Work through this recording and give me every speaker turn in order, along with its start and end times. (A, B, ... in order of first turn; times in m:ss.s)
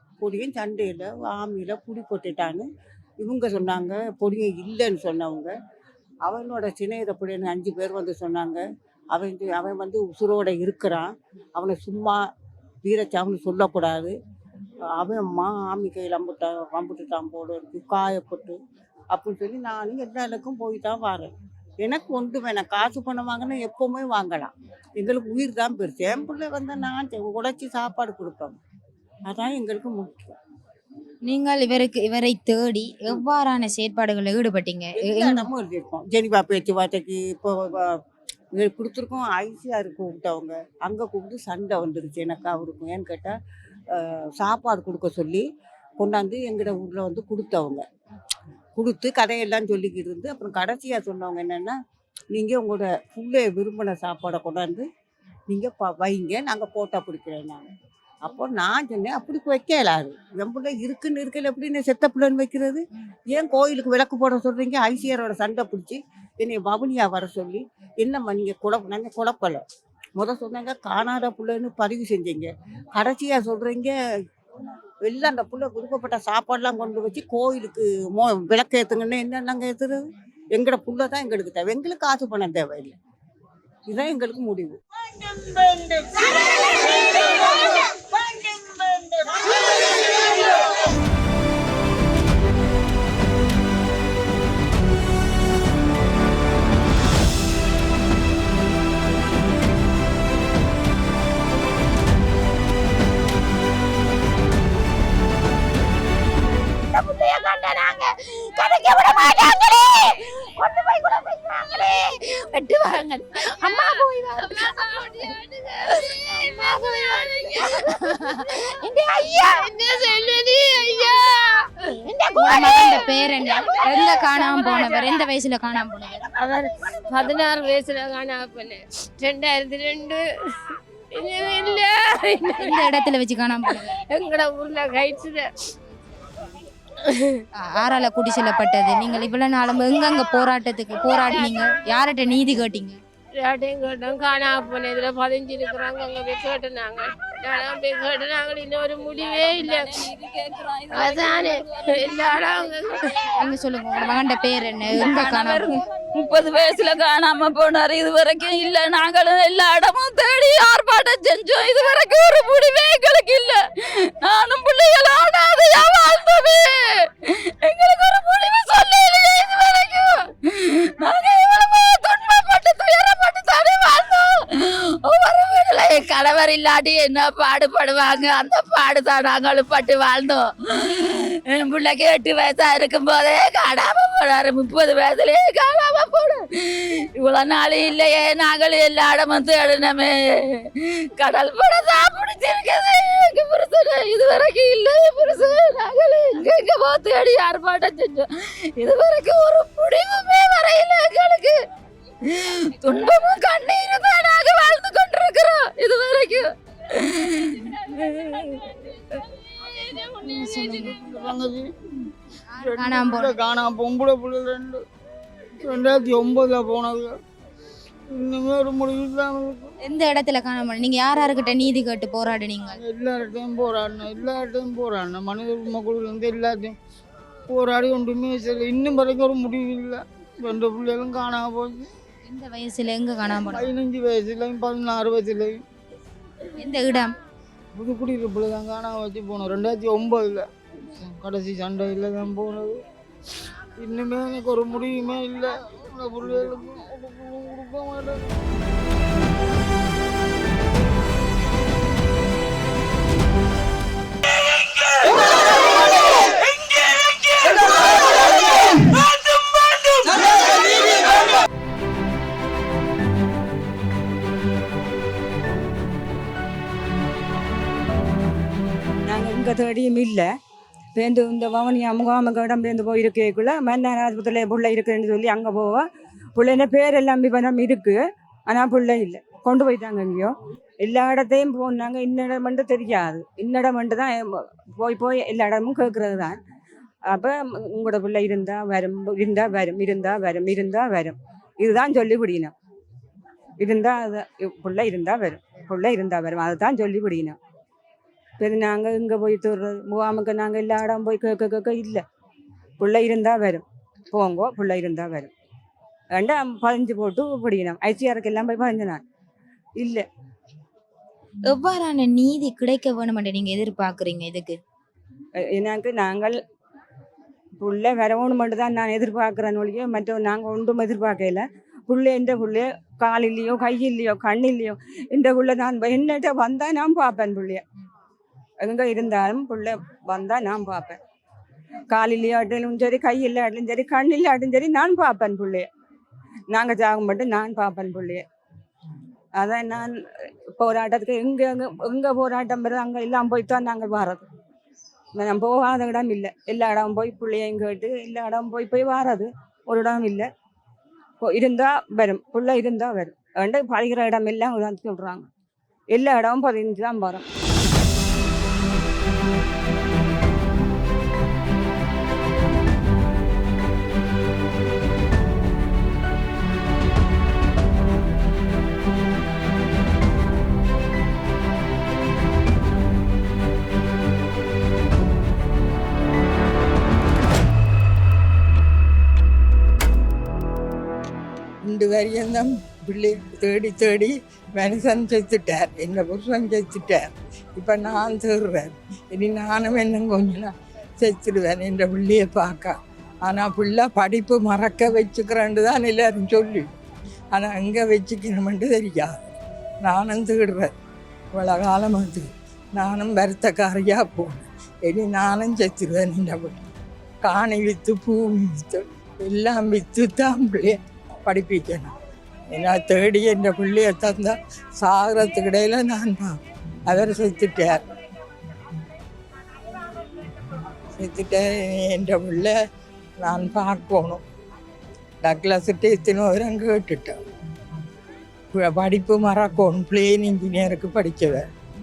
0:00.2-0:02.6 A
0:03.2-0:05.5 A
0:06.2-0:12.2 A
0:12.8-0:14.1 A
0:14.9-0:18.6 A
0:19.1-0:28.6 A
0:29.3-0:30.4 A
0:31.3-0:35.5 B
0:35.0-0:37.9 A
0:38.6-0:43.3 A
0:44.0-0:45.4 A
0:46.0-0:47.8 A
0:48.8-0:51.8 A
0:52.3-0:54.9 A
0:55.5-0:57.7 A
0:58.2-1:09.6 A
1:10.2-1:13.9 A
1:15.0-1:20.0 A
1:20.5-1:23.0 A
1:23.9-1:24.8 A
1:25.3-1:28.0 A
1:47.2-1:48.9 C
1:50.8-1:51.9 C
1:52.5-1:58.3 C
1:58.9-2:05.2 C
2:02.4-2:06.3 B
2:06.4-2:12.6 C
2:12.6-2:13.9 B
2:14.0-2:15.5 C
2:17.0-2:17.4 C
2:17.6-2:23.0 B
2:21.3-2:21.6 C
2:23.4-2:29.9 C
2:29.0-2:33.0 D
2:30.9-2:33.3 C
2:33.4-2:35.8 B
2:35.0-3:21.6 D
3:22.2-3:30.7 D
3:30.2-3:31.4 B
3:30.6-3:31.7 E
3:32.6-3:33.4 B
3:32.6-3:34.8 E
3:35.6-3:37.2 E
3:38.1-3:39.7 E
3:39.8-3:42.8 B
3:42.7-3:46.8 E
3:47.5-3:51.9 E
3:52.3-3:53.7 B
3:53.5-3:55.6 E
3:56.6-3:57.1 B
3:57.7-4:02.8 E
4:03.8-4:08.4 E
4:29.1-4:30.3 F
4:31.0-4:35.8 F
4:36.4-4:40.3 F
4:40.8-4:44.2 F
4:44.8-4:46.4 F
4:47.1-4:52.5 F
4:53.6-4:57.4 F
4:58.4-5:02.0 F
5:02.8-5:05.3 F
5:06.2-5:09.0 F
5:09.8-5:10.0 F
5:11.5-5:14.6 B
5:15.5-5:16.4 F
5:17.6-5:27.6 F
5:28.6-5:31.0 F
5:31.9-5:35.6 F
5:36.5-5:38.2 F
5:39.4-5:39.9 F
5:40.6-5:44.2 F
5:45.2-5:50.2 F
5:51.2-5:55.3 F
5:55.9-5:57.2 F
6:21.7-6:32.7 G
6:33.2-6:36.7 G
6:37.4-6:39.1 G
6:39.8-6:40.7 G
6:41.4-6:46.6 G
6:47.2-6:50.8 G
6:51.3-6:51.9 G
6:52.5-6:56.3 G
6:56.9-6:57.8 G
7:01.0-7:02.5 G
7:03.2-7:04.2 G
7:05.2-7:07.2 G
7:08.6-7:11.4 G